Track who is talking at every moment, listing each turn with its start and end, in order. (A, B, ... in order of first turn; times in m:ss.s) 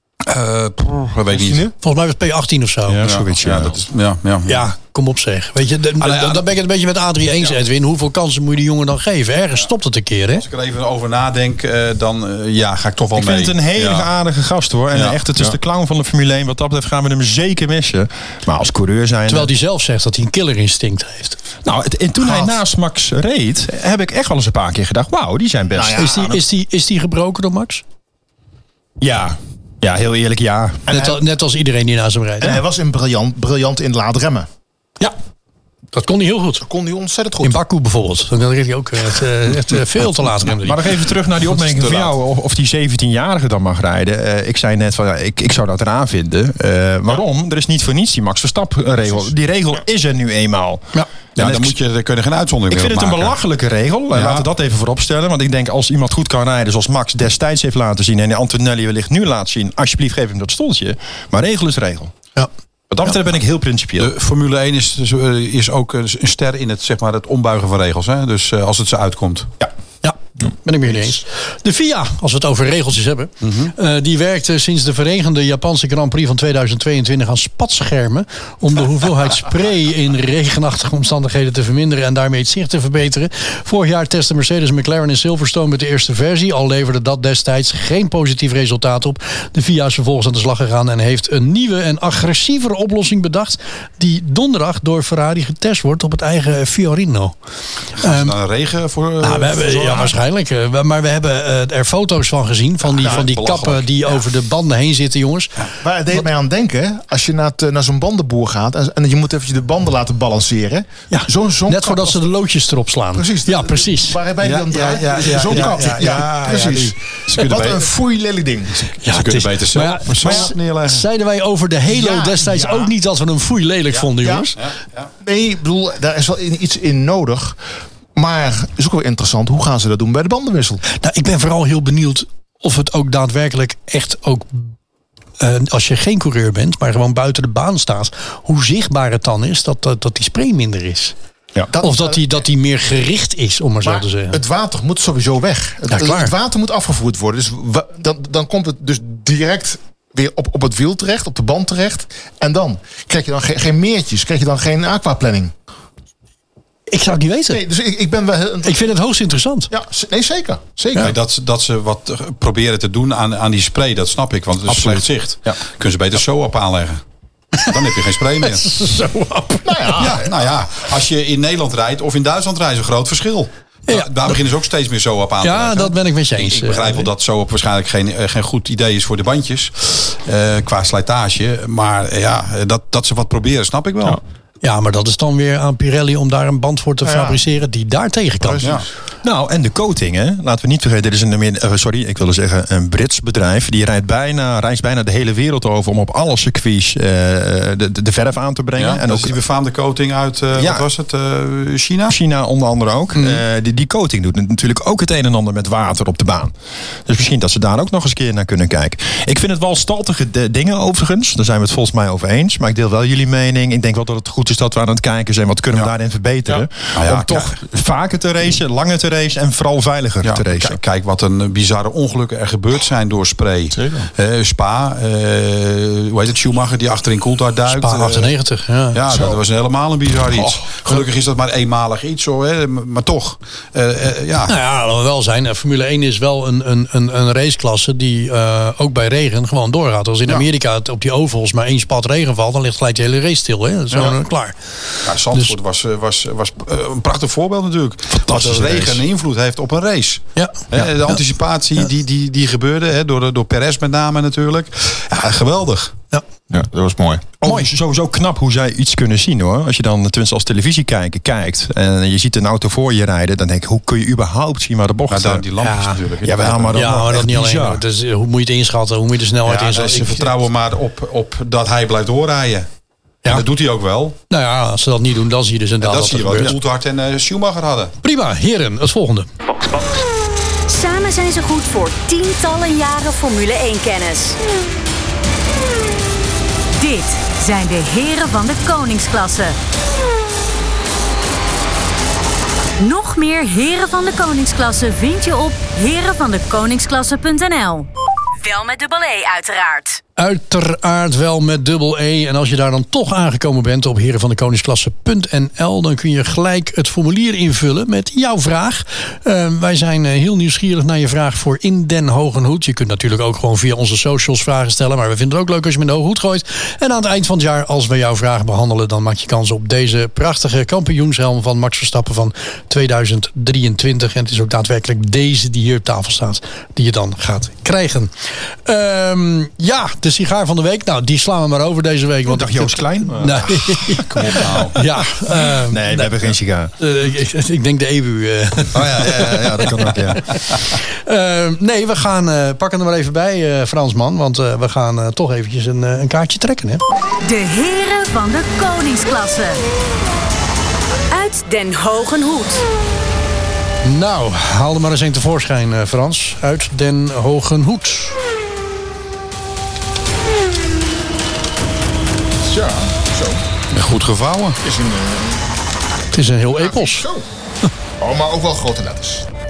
0:00.2-0:01.7 A
0:01.3-0:01.7 B
0:01.8-0:03.1 C
0:02.9-0:03.8 D
0:03.0-0:04.7 A
0:04.4-0:10.4 C
0:06.0-0:06.4 A
0:10.4-0:14.1 A
0:13.1-0:19.5 D
0:14.9-0:15.2 A
0:19.3-0:21.4 C
0:21.6-0:26.0 D
0:25.7-0:26.4 B
0:26.0-0:27.8 C
0:29.0-0:30.9 D
0:30.9-0:31.2 B
0:30.9-0:32.6 C
0:32.4-0:34.5 B
0:35.9-0:36.6 C
0:36.6-0:37.6 B
0:37.4-0:40.8 C
0:40.5-0:51.8 D
0:41.5-0:42.1 A
0:51.4-0:53.3 A
0:52.7-1:02.1 D
0:54.1-0:54.5 A
1:02.9-1:04.1 D
1:04.0-1:09.5 A
1:10.0-1:37.4 C
1:13.4-1:13.7 A
1:38.0-1:38.4 C
1:38.0-1:40.1 A
1:39.2-1:46.2 C
1:43.0-1:43.3 B
1:43.0-1:43.8 A
1:45.8-1:52.2 B
1:51.1-1:54.2 C
1:53.1-1:58.8 B
1:54.4-1:57.9 A
1:55.2-1:56.4 C
1:58.7-2:01.0 A
1:59.0-2:04.6 C
2:01.9-2:02.9 B
2:04.2-2:04.5 B
2:04.6-2:05.1 A
2:05.2-2:07.6 B
2:08.2-2:10.8 B
2:10.8-2:14.7 C
2:15.4-2:21.1 C
2:21.6-2:22.2 B
2:21.8-2:24.4 C
2:23.8-2:35.5 B
2:25.9-2:26.3 C
2:36.9-2:37.6 C
2:37.5-2:38.9 B
2:38.6-2:39.7 C
2:39.7-2:41.1 B
2:41.0-2:47.0 A
2:44.7-2:45.2 C
2:47.5-2:47.8 C
2:47.6-2:48.7 A
2:48.4-2:50.2 C
2:49.6-2:50.3 B
2:50.0-3:04.2 A
2:53.9-2:54.4 C
2:55.4-2:57.1 C
3:04.6-3:08.8 C
3:07.0-3:07.4 B
3:08.5-3:08.8 B
3:08.6-3:08.8 A
3:09.2-3:19.4 D
3:18.8-3:22.2 A
3:20.6-3:20.8 D
3:22.1-3:26.5 D
3:27.1-3:40.8 D
3:36.9-3:37.6 A
3:40.2-3:48.3 A
3:43.8-3:44.1 B
3:47.7-3:49.0 C
3:48.9-3:54.5 A
3:54.5-4:04.6 C
4:05.0-4:15.9 A
4:08.2-4:09.0 D
4:10.4-4:11.2 C
4:16.5-4:17.3 B
4:17.4-4:25.4 D
4:25.1-4:26.8 A
4:25.6-4:26.0 C
4:26.2-4:27.8 D
4:26.7-4:30.4 C
4:29.4-4:32.7 A
4:33.2-4:34.2 A
4:34.3-4:36.6 C
4:35.8-4:37.9 A
4:38.0-4:39.3 C
4:40.7-4:44.4 E
4:46.8-4:49.6 E
4:52.8-4:57.9 E
4:58.4-5:00.0 E
5:00.2-5:36.3 C
5:32.3-5:34.6 D
5:34.1-5:34.8 A
5:35.4-5:36.7 D
5:36.8-5:46.8 C
5:38.7-5:40.2 D
5:47.2-5:49.6 E
5:51.1-5:52.6 E
5:53.8-5:58.2 C
6:02.4-6:03.4 B
6:03.7-6:04.6 A
6:04.6-6:05.6 B
6:06.1-6:07.1 C
6:06.6-6:07.2 B
6:08.0-6:09.3 B